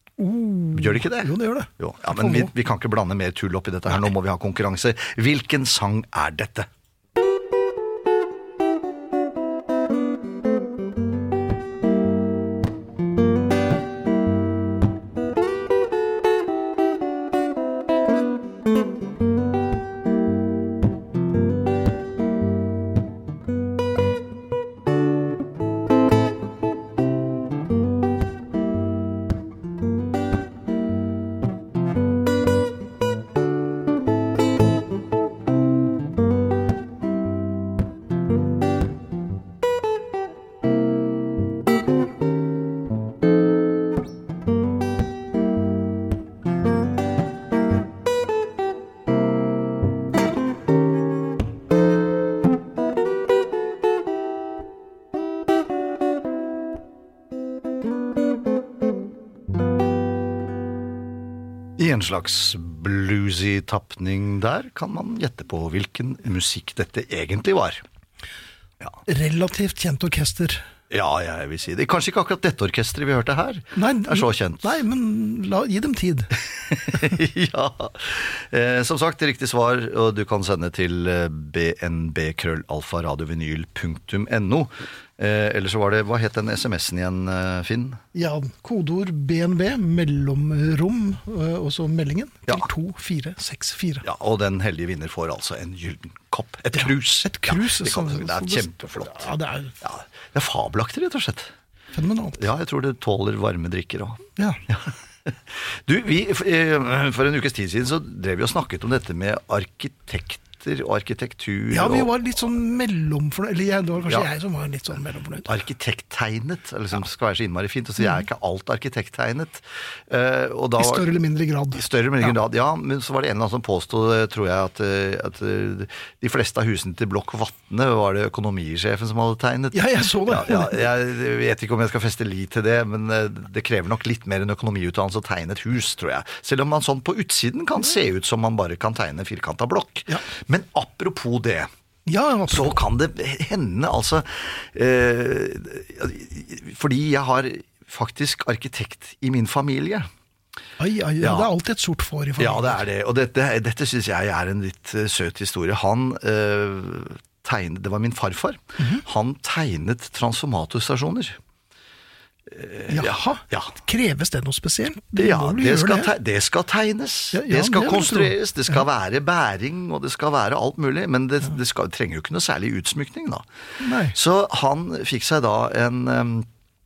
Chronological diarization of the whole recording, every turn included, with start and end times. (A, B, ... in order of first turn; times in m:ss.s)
0:00.2-0:02.5 A
0:00.7-0:06.7 B
1:01.8-1:07.8 B
1:09.0-1:10.6 A
1:10.9-1:14.7 B
1:13.7-1:16.3 A
1:16.8-1:28.0 B
1:28.1-1:34.0 A
1:34.0-1:39.3 B
1:36.7-1:39.7 A
1:39.8-1:41.5 B
1:41.9-1:42.4 A
1:42.4-1:52.1 B
1:51.7-1:55.5 A
1:54.0-1:54.3 B
1:55.4-2:01.1 B
2:00.8-2:01.8 A
2:01.7-2:21.7 B
2:09.7-2:10.8 A
2:22.1-2:22.8 A
2:22.5-2:30.1 B
2:30.8-2:32.8 A
2:31.2-2:31.5 B
2:32.4-2:41.4 B
2:42.5-2:43.7 B
2:42.9-2:46.1 A
2:45.2-2:53.4 B
2:47.3-2:48.8 A
2:53.8-2:54.2 A
2:54.1-2:56.5 B